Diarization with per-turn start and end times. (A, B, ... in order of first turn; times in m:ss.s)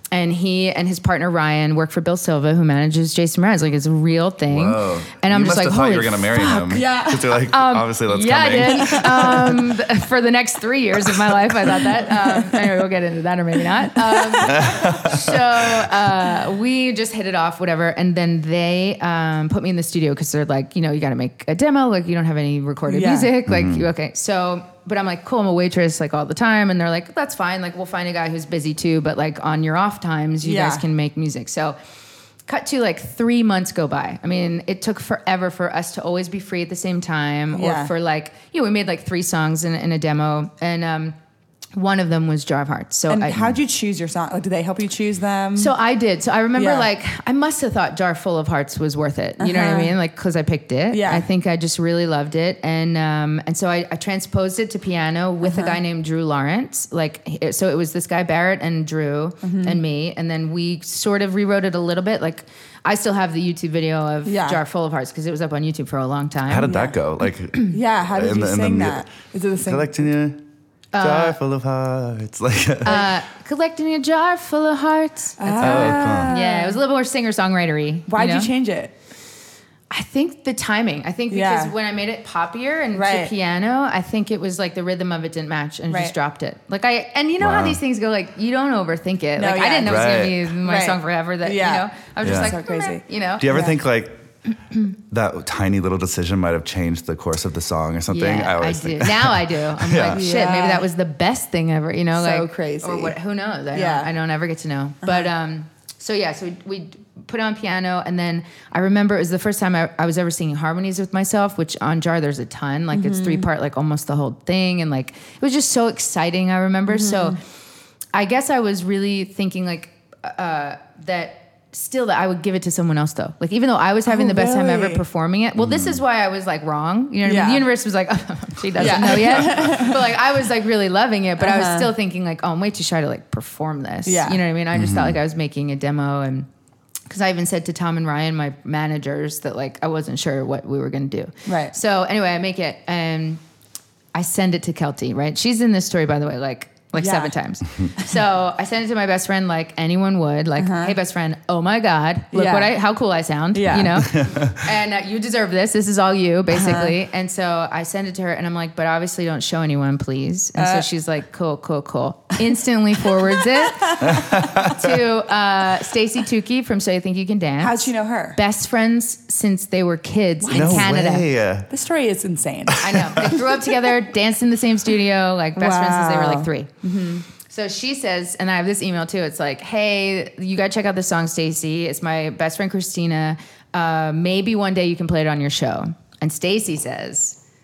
0:00.1-0:31.8 A
0:04.5-0:09.7 B
0:06.7-0:07.4 C
0:08.7-0:09.5 C
0:11.9-0:12.8 C
0:13.9-0:14.8 C
0:14.4-0:15.4 B
0:22.9-0:23.3 C
0:23.5-0:23.9 B
0:30.4-0:30.8 C
0:32.5-0:41.2 A
0:37.5-0:37.9 C
0:41.7-0:43.5 A
0:43.1-0:45.7 C
0:45.6-1:06.8 A
0:46.6-0:46.9 C
0:49.4-0:49.9 C
0:50.9-0:51.3 C
0:55.4-0:55.8 C
0:59.4-0:59.8 C
1:04.2-1:04.6 C
1:06.5-1:09.0 B
1:06.6-1:07.0 C
1:07.7-1:10.1 C
1:09.6-1:10.4 B
1:10.9-1:11.4 A
1:11.0-1:13.1 B
1:12.8-1:18.5 A
1:15.4-1:16.8 C
1:15.6-1:16.4 B
1:18.1-1:18.9 C
1:19.9-1:33.7 A
1:21.3-1:21.7 C
1:22.9-1:23.3 C
1:25.9-1:26.1 C
1:27.4-1:27.8 B
1:29.4-1:33.8 C
1:29.8-1:30.4 B
1:32.2-1:32.5 B
1:33.4-1:34.2 B
1:35.0-1:40.2 B
1:38.1-1:57.4 A
1:40.1-1:40.9 C
1:42.1-1:43.2 C
1:43.7-1:44.1 C
1:45.0-1:45.3 C
1:52.9-1:53.5 C
1:56.9-1:57.4 C
1:58.1-2:16.5 A
2:04.0-2:05.0 C
2:05.6-2:06.0 B
2:07.2-2:07.7 C
2:08.8-2:10.1 C
2:11.4-2:11.9 C
2:14.0-2:14.4 C
2:14.7-2:15.2 B
2:17.1-2:23.4 A
2:21.4-2:21.7 C
2:24.1-2:51.3 A
2:27.0-2:27.3 C
2:30.6-2:31.0 C
2:32.3-2:32.7 C
2:33.5-2:34.1 C
2:34.0-2:34.6 B
2:36.5-2:36.9 C
2:40.6-2:40.9 C
2:43.3-2:44.4 C
2:44.1-2:44.8 B
2:47.6-2:48.4 C
2:50.4-2:53.7 C
2:50.5-2:51.7 B
2:52.7-2:53.2 B
2:52.8-2:56.7 A
2:55.6-2:57.2 C
2:57.5-3:07.4 A